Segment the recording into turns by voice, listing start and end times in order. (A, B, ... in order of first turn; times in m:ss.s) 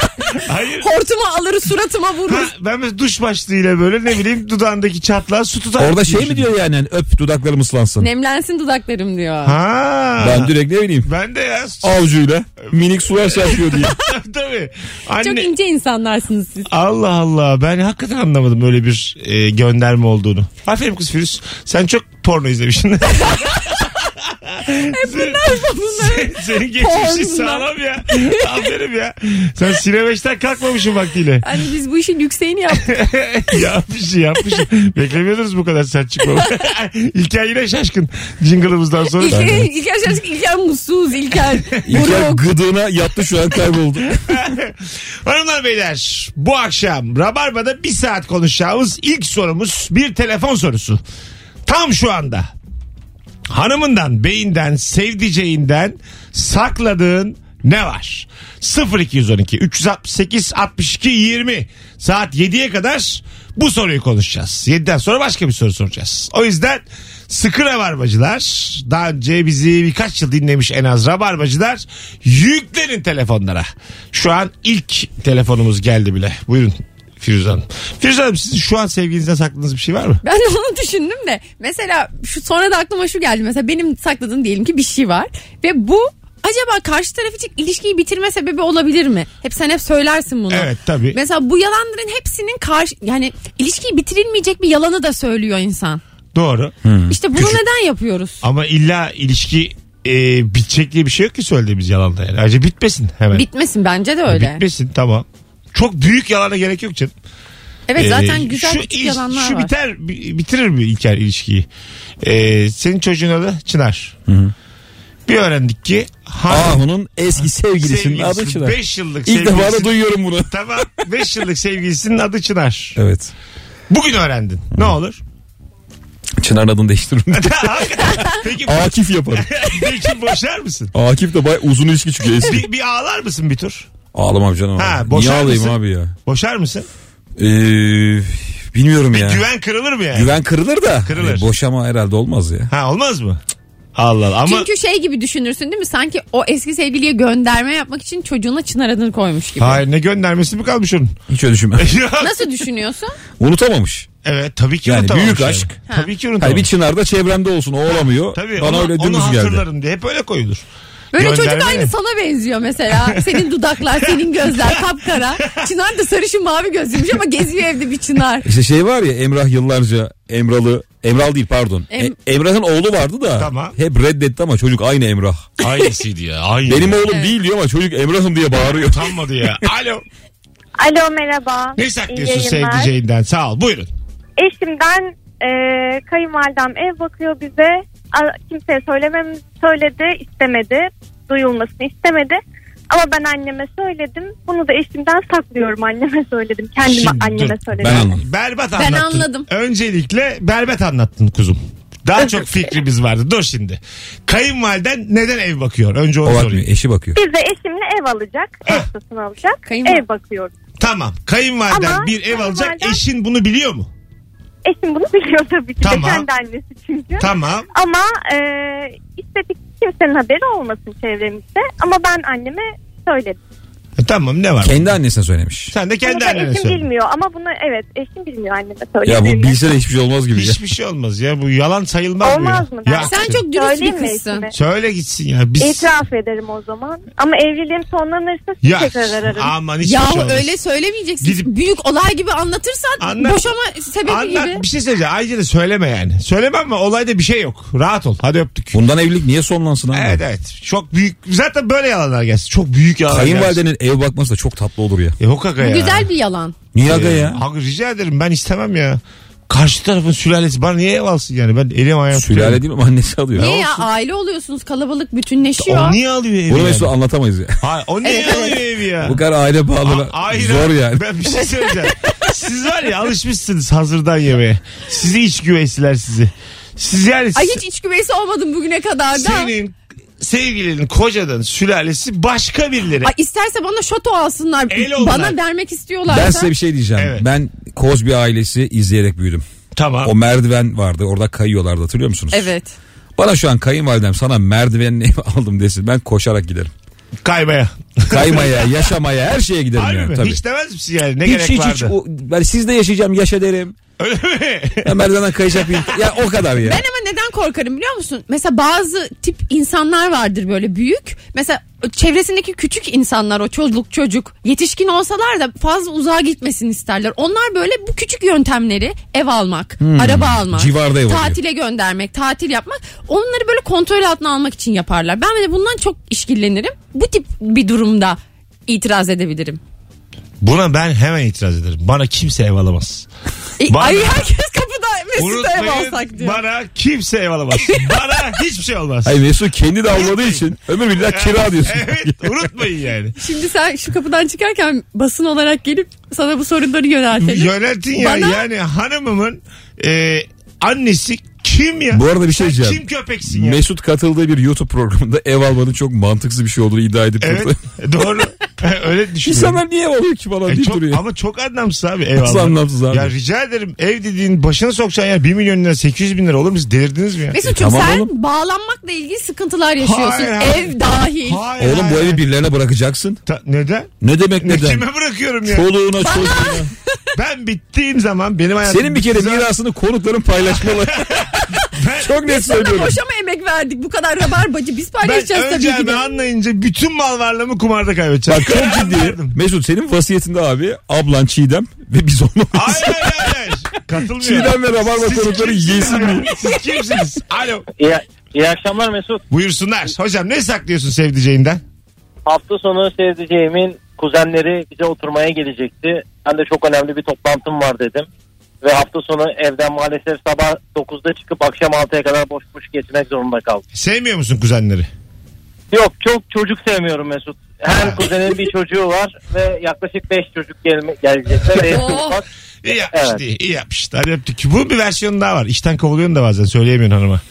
0:00.4-0:00.9 A
0:00.8-0:02.5 B
0:02.2-0:06.5 A
0:05.8-0:08.1 C
0:08.0-0:09.6 B
0:09.4-0:12.0 A
0:10.2-0:11.1 C
0:11.8-0:13.9 C
0:13.1-0:15.5 A
0:15.2-0:16.7 B
0:16.7-0:31.4 A
0:23.2-0:23.8 B
0:24.7-0:28.4 B
0:31.4-0:32.9 B
0:32.8-0:39.7 A
0:39.2-0:42.5 B
0:41.9-0:44.2 C
0:44.2-0:51.0 A
0:51.6-0:52.5 A
0:53.5-1:20.2 A
1:20.2-1:36.0 B
1:30.5-1:31.2 A
1:36.3-1:36.8 A
1:36.8-1:37.1 C
1:37.1-1:38.4 B
1:38.4-1:43.4 A
1:43.3-1:44.6 B
1:44.2-1:47.1 A
1:47.9-1:49.7 B
1:47.9-1:51.7 A
1:52.2-1:54.2 A
1:54.3-1:54.5 C
1:55.3-1:56.8 A
1:56.5-2:00.8 C
1:57.8-1:59.9 A
2:00.5-2:03.0 A
2:03.0-2:03.3 C
2:03.9-2:05.2 A
2:06.4-2:09.9 C
2:07.3-2:10.9 A
2:10.9-2:12.6 C
2:12.4-2:13.9 A
2:14.1-2:16.1 C
2:14.8-2:16.9 A
2:17.4-2:19.4 C
2:19.1-2:20.4 A
2:20.1-2:22.7 C
2:21.0-2:21.5 A
2:22.7-2:23.4 A
2:23.9-2:24.7 A
2:24.4-2:29.8 B
2:29.6-2:31.2 A
2:31.3-2:31.9 C
2:31.8-2:32.5 A
2:32.2-2:33.2 B
2:33.4-2:34.1 C
2:34.2-2:36.7 A
2:34.8-2:35.7 C
2:36.4-2:39.6 C
2:37.9-2:41.9 A
2:41.1-2:48.4 B
2:43.0-2:43.4 A
2:48.4-2:55.5 C
2:51.9-2:52.2 B
2:53.4-2:53.8 A
2:55.6-2:57.0 A
2:56.7-2:59.2 C
2:58.8-3:00.0 A
3:00.8-3:02.9 D
3:01.8-3:03.9 A
3:04.4-3:12.4 D
3:12.9-3:18.1 D
3:16.8-3:26.6 A
3:17.8-3:18.2 C
3:18.8-3:19.5 B
3:26.2-3:27.2 C
3:27.1-3:30.5 D
3:29.6-3:30.0 B
3:30.8-3:33.9 A
3:31.7-3:33.0 D
3:34.6-3:43.4 D
3:35.8-3:36.2 A
3:37.2-3:37.7 A
3:44.0-3:44.9 A
3:44.6-3:45.7 C
3:45.7-3:46.8 A
3:46.0-3:49.6 D
3:49.0-3:50.6 C
3:50.3-3:53.4 A
3:52.2-3:54.5 D
3:53.0-3:54.5 B
3:54.5-3:55.9 A
3:55.6-3:59.5 D
3:58.6-4:00.6 A
3:59.8-4:04.6 B
4:01.2-4:01.5 A
4:03.0-4:03.4 A
4:04.0-4:08.8 A
4:08.7-4:10.2 C
4:09.9-4:13.6 A
4:13.1-4:15.2 C
4:15.2-4:16.1 A
4:15.6-4:16.6 B
4:16.7-4:17.4 C
4:16.8-4:22.6 A
4:22.1-4:23.5 C
4:23.4-4:26.0 B
4:23.4-4:23.7 A
4:25.6-4:26.9 A
4:26.5-4:27.6 C
4:27.6-4:29.2 A
4:28.0-4:28.6 B
4:29.0-4:31.1 C
4:29.8-4:37.6 A
4:37.3-4:39.5 B
4:39.1-4:43.1 A
4:43.0-4:46.5 B
4:44.7-4:45.4 A
4:46.1-4:49.4 C
4:47.0-4:47.3 A
4:49.8-4:50.1 A
4:50.0-4:52.5 C
4:52.3-4:52.8 B
4:53.2-4:56.7 C
4:57.2-4:58.9 A
4:58.1-5:00.4 C
4:59.8-5:01.9 A
5:01.2-5:03.8 C
5:04.0-5:05.0 A
5:04.8-5:06.8 C
5:05.6-5:05.9 A
5:06.6-5:29.6 B
5:19.8-5:21.4 C
5:30.4-5:33.1 A
5:33.6-5:36.4 B
5:33.7-5:34.2 A
5:35.2-5:39.2 A
5:37.6-5:37.9 B
5:39.0-5:42.5 C
5:39.9-5:43.2 A
5:43.2-5:48.4 B
5:47.2-5:53.6 A
5:51.9-5:57.6 C
5:57.2-5:59.6 A
5:59.2-6:01.0 C
6:00.5-6:07.4 A
6:02.2-6:03.1 C
6:07.3-6:11.4 B
6:07.4-6:08.1 C
6:09.8-6:12.2 A
6:11.6-6:13.2 C
6:13.2-6:15.7 A
6:14.0-6:14.8 C
6:15.5-6:16.7 C
6:16.0-6:16.7 B
6:17.2-6:19.5 A
6:18.7-6:23.0 C
6:20.7-6:22.2 A
6:22.2-6:26.2 B
6:25.0-6:29.4 A
6:28.3-6:33.3 C
6:32.5-6:37.7 A
6:34.2-6:36.3 C
6:37.8-6:39.2 E
6:39.3-6:41.6 A
6:42.2-6:48.1 E
6:48.6-6:53.6 E
6:53.7-6:54.9 A
6:55.7-7:03.2 E
6:57.7-6:58.0 A
7:01.6-7:02.2 B
7:02.6-7:07.2 A